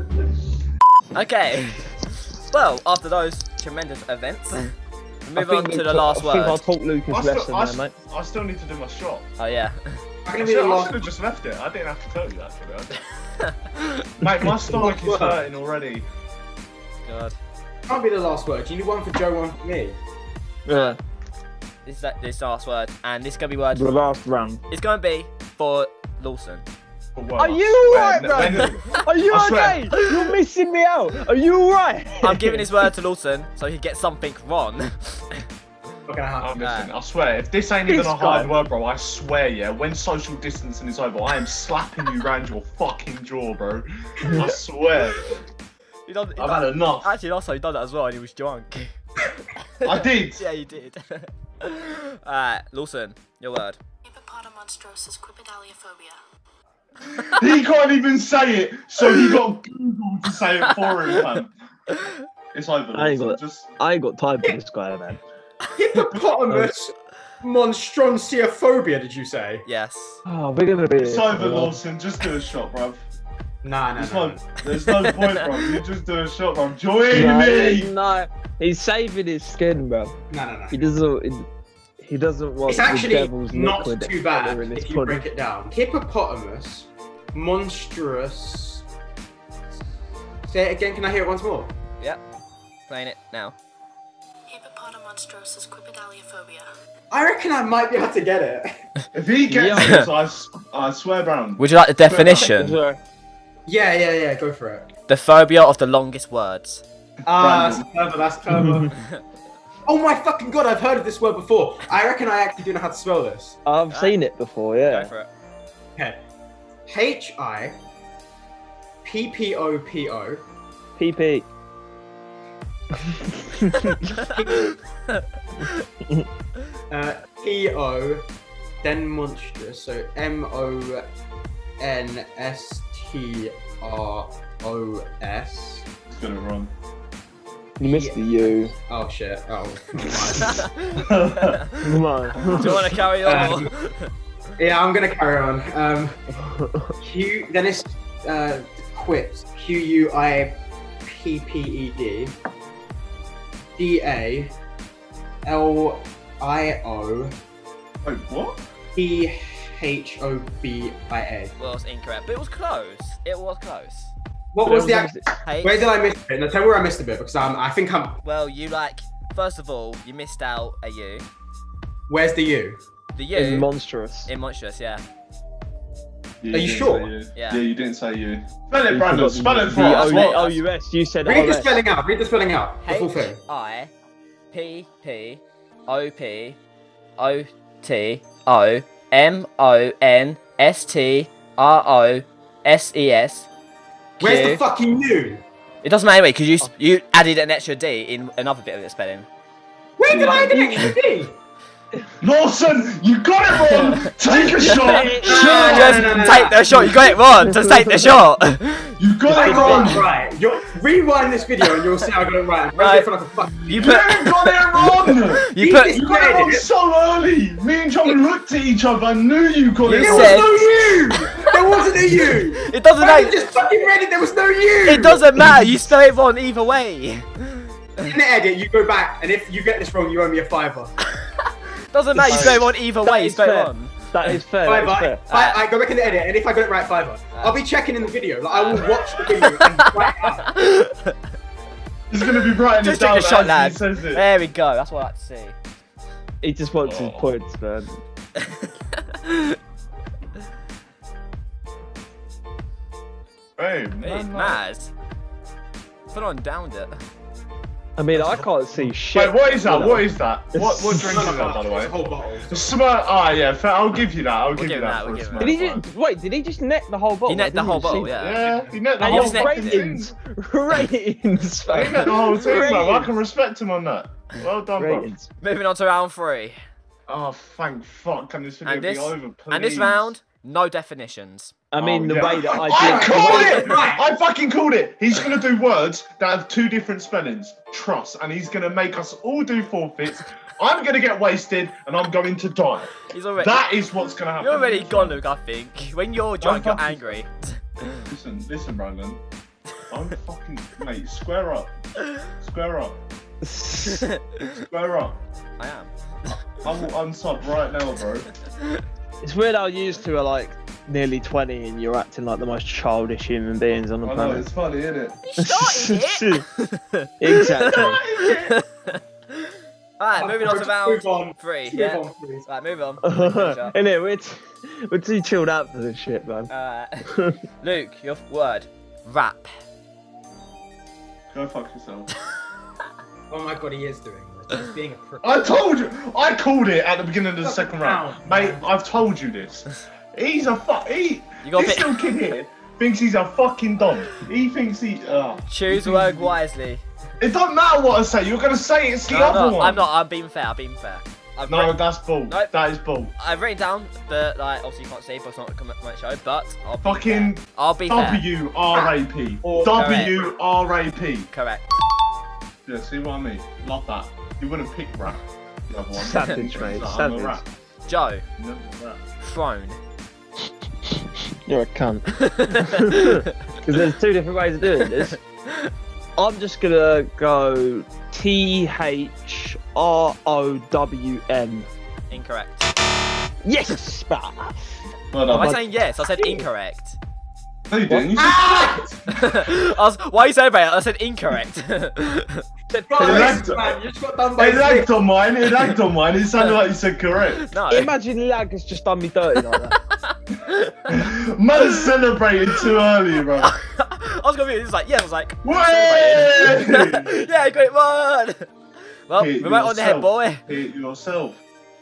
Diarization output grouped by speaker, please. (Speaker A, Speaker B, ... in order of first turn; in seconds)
Speaker A: 1.1-4.7, 5.2-6.6, 9.4-10.0, 13.4-14.0, 17.1-17.4, 20.7-21.0, 21.9-23.9, 24.7-26.7, 32.2-35.5, 36.6-36.9, 46.1-53.8, 60.8-61.2, 69.7-70.2, 74.8-75.8, 92.9-93.6, 99.8-100.1, 101.6-102.8, 105.1-106.8, 113.9-114.2, 114.9-115.3, 125.2-125.8, 140.4-141.9, 142.5-144.1, 161.6-164.1, 165.4-165.9, 168.2-171.2, 173.2-173.7, 174.3-175.0, 177.3-177.6, 179.7-180.6, 182.8-183.9, 184.5-186.6, 187.2-193.5, 194.2-194.6, 195.8-199.3, 204.7-210.0, 212.8-213.1, 213.7-216.0, 219.8-220.6, 222.6-223.4, 224.9-228.1, 231.9-234.3, 235.3-235.6, 237.3-237.6, 238.5-241.2, 242.8-245.6, 248.4-249.6, 254.0-254.9, 256.1-257.0, 264.6-265.5, 267.3-269.9, 275.4-276.6, 278.6-281.6, 293.1-293.6, 294.4-298.0, 303.9-304.4, 305.6-306.4, 315.2-317.7, 318.2-323.8, 326.5-327.1, 327.6-329.5, 341.4-342.1, 345.5-346.8, 349.1-352.5, 353.2-358.2, 359.7-360.3, 361.3-361.8, 367.9-368.2, 369.2-369.8, 372.2-373.5, 374.9-375.7, 382.1-382.8, 385.3-387.0, 389.1-392.4, 397.5-397.9, 400.0-400.9, 403.4-408.5, 409.1-410.5
Speaker B: 5.3-7.9, 20.7-21.0, 23.7-24.6, 27.4-32.7, 37.9-38.5, 62.9-65.2, 70.3-71.8, 77.1-80.2, 80.7-81.5, 82.0-85.2, 99.5-100.1, 102.3-103.0, 113.7-115.1, 121.0-121.5, 123.0-124.0, 137.8-138.7, 141.8-142.9, 146.3-147.0, 164.6-165.2, 173.3-174.3, 178.9-181.8, 200.5-201.0, 204.7-206.5, 207.4-208.2, 209.4-210.0, 232.1-235.2, 246.4-248.0, 258.0-261.4, 265.4-268.1, 269.0-273.1, 274.8-275.3, 281.7-283.8, 303.4-304.1, 309.2-314.5, 315.4-316.4, 317.2-318.0, 323.0-326.5, 327.1-327.4, 365.9-367.4, 370.9-375.2, 376.2-381.7, 383.4-385.6, 387.9-388.1, 392.7-393.4, 397.7-399.8
Speaker C: 7.1-9.3, 10.4-13.0, 14.2-16.1, 27.1-29.8, 36.4-45.4, 46.4-47.1, 49.8-50.5, 57.2-61.5, 62.5-63.7, 71.0-73.0, 74.0-77.9, 99.1-102.5, 107.3-107.9, 136.1-136.7, 140.9-141.7, 142.4-142.8, 158.0-158.6, 176.4-180.4, 200.1-200.4, 202.2-206.3, 209.0-210.1, 213.7-221.3, 232.3-232.6, 242.1-244.3, 246.8-247.3, 253.6-254.6, 259.1-261.9, 262.5-265.8, 268.1-270.1, 271.7-275.1, 277.1-280.1, 281.8-295.2, 296.4-297.2, 298.1-299.2, 299.9-301.8, 302.4-303.0, 304.5-305.2, 306.6-308.3, 314.0-315.2, 317.7-318.6, 331.3-332.1, 335.2-346.4, 347.2-349.9, 351.5-353.1, 356.8-361.3, 362.7-367.4, 368.4-369.0, 385.1-385.6, 387.7-388.8, 393.0-393.8, 394.4-397.6, 400.9-403.5, 405.4-407.2, 409.2-411.4
Speaker D: 10.2-11.0, 14.6-15.4, 17.9-20.0, 36.1-36.6, 65.8-69.6, 73.6-74.4, 80.3-80.8, 82.7-88.8, 90.5-91.7, 97.1-98.8, 103.7-104.9, 107.3-109.0, 109.8-113.6, 116.9-117.8, 119.0-120.5, 124.2-124.8, 126.9-128.3, 128.8-131.1, 131.8-135.9, 137.8-138.2, 138.9-140.7, 143.2-143.7, 144.6-146.2, 147.0-152.3, 153.8-154.5, 155.4-157.3, 158.9-161.5, 164.5-168.2, 172.1-172.8, 176.5-177.1, 181.2-183.4, 194.2-195.4, 200.0-201.4, 204.3-207.2, 209.3-213.7, 215.6-216.7, 219.9-225.3, 228.0-230.9, 234.6-240.5, 258.2-258.9, 260.9-262.8, 282.6-284.1, 320.2-322.5, 333.3-335.5, 337.4-338.7, 358.7-360.3, 388.2-389.0, 392.9-394.9
Speaker E: 54.1-56.2, 94.5-96.7